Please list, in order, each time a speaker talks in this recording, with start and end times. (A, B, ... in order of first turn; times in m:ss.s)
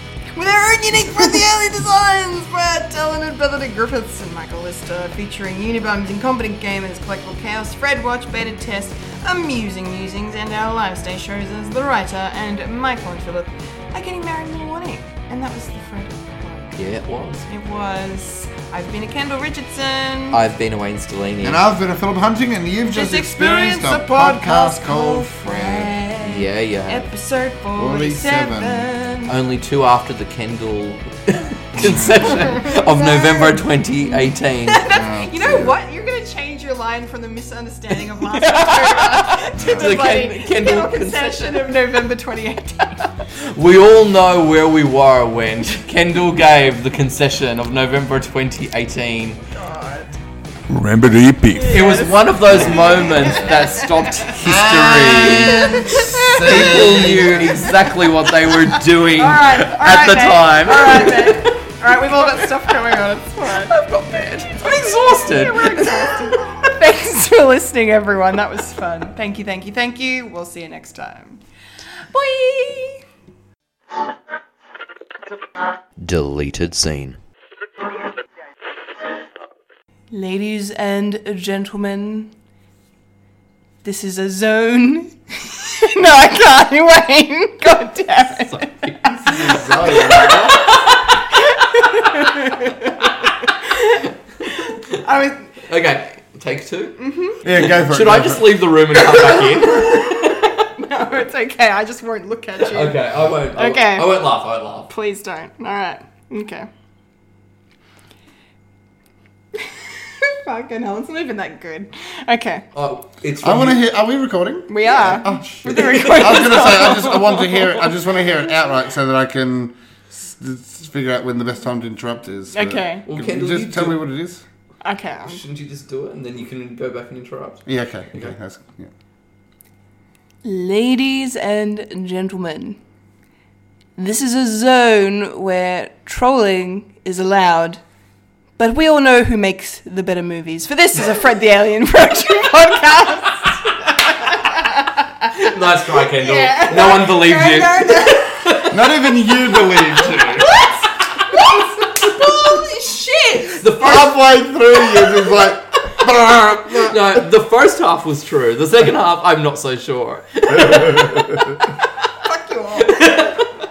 0:00.4-0:16.8 A
0:16.8-0:17.5 B
0:17.5-0:20.4 A
0:20.3-0:21.6 B
0:21.4-0:26.0 C
0:22.9-0:29.4 A
0:26.2-0:27.1 B
0:27.8-0:28.9 C
0:29.3-0:35.0 B
0:31.8-0:32.5 C
0:31.8-0:43.2 A
0:34.9-0:35.8 C
0:38.0-0:41.9 B
0:39.6-0:39.9 C
0:43.4-0:49.4 B
0:49.5-0:50.1 A
0:51.4-0:54.3 A
0:51.6-1:02.7 B
0:54.4-0:57.7 C
0:55.5-1:03.8 A
1:03.5-1:06.6 B
1:04.7-1:11.4 A
1:12.0-1:13.0 A
1:16.0-1:17.2 B
1:20.1-1:22.3 A
1:23.8-1:30.7 A
1:28.5-1:29.6 B
1:29.2-1:30.7 C
1:30.2-1:31.0 B
1:31.3-1:35.7 A
1:35.6-1:40.7 B
1:37.0-1:37.4 A
1:37.4-1:38.7 C
1:39.0-1:44.2 A
1:42.6-1:44.9 B
1:44.9-1:46.7 A
1:49.6-1:52.7 A
1:52.7-1:53.8 B
1:53.4-2:04.4 C
1:54.7-1:58.3 A
1:55.6-1:56.8 B
2:02.5-2:03.1 A
2:03.1-2:04.0 B
2:04.8-2:05.4 A
2:05.2-2:08.3 B
2:07.7-2:08.9 C
2:10.4-2:12.8 A
2:14.0-2:17.8 A
2:18.6-2:28.7 A
2:25.4-2:28.8 B
2:28.7-2:30.6 C
2:29.7-2:33.7 A
2:33.6-2:34.2 B
2:33.7-2:37.2 C
2:36.7-2:41.8 B
2:42.1-2:43.3 A
2:42.8-2:43.5 B